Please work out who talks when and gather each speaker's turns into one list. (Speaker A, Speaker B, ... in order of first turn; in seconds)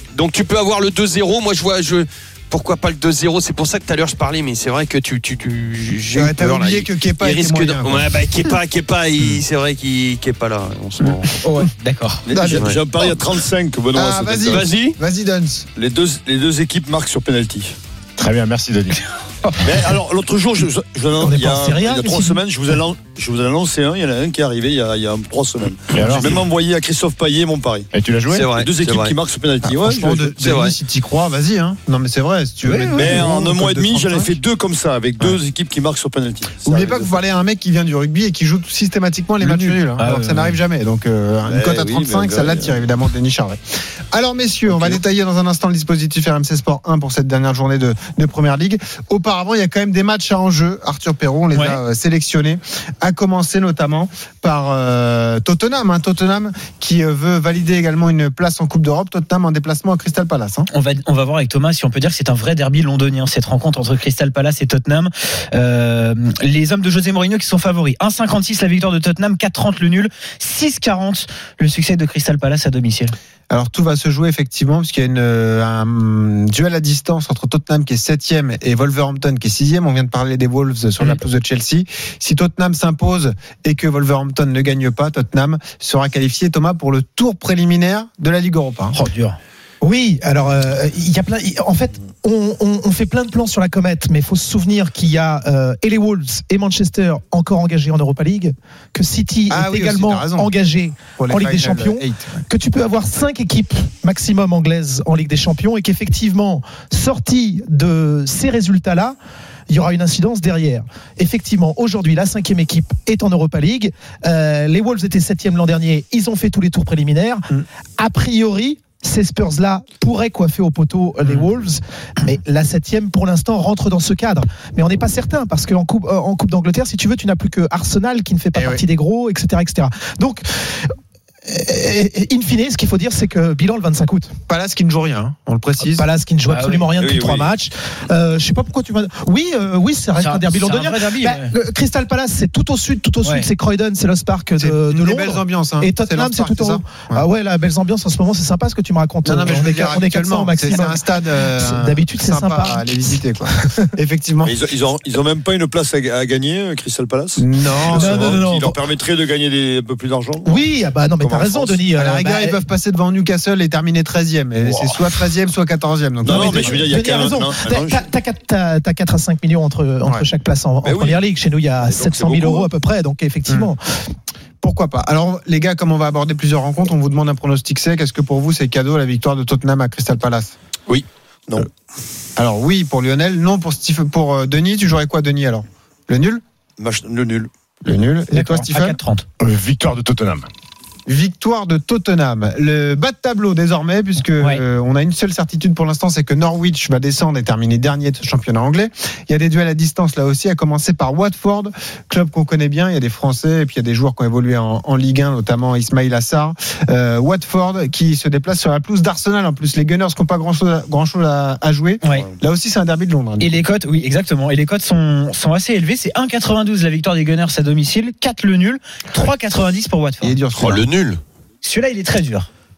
Speaker A: 0.1-11.3, 12.5-12.8, 14.5-15.0, 28.3-29.1, 30.4-30.8, 220.6-221.2
Speaker B: 6.1-8.1, 12.3-13.2, 13.9-15.7, 29.6-34.3, 36.6-43.6, 44.1-60.7, 73.5-89.0, 99.5-100.5, 101.2-102.5, 128.6-128.8, 134.5-136.1, 144.6-147.2, 149.2-154.6, 157.4-158.4, 161.9-167.1, 174.6-180.5, 182.4-186.4, 187.8-189.0, 191.1-213.6, 220.2-220.9
Speaker C: 11.4-12.2, 32.6-33.2, 40.0-40.6, 51.5-51.8, 60.7-73.2, 88.9-89.4, 136.5-136.9, 140.2-141.5, 143.2-143.5, 188.3-189.3, 213.4-220.4, 221.6-222.5
Speaker D: 12.2-14.7, 15.8-17.8, 19.6-27.9, 28.5-30.6, 32.9-37.1, 41.5-42.8, 44.7-45.0, 137.0-137.5, 154.4-160.7, 161.2-161.8, 164.7-164.9, 166.2-168.1, 170.8-171.3, 171.8-172.7, 186.8-187.5, 212.1-212.4
Speaker E: 18.2-19.0, 25.9-26.4, 27.9-28.5, 189.4-190.5
Speaker F: 21.2-22.4, 89.8-109.2, 109.7-117.5, 118.0-130.9, 131.5-134.3, 135.8-153.7, 157.9-158.8, 160.4-162.6, 166.3-173.8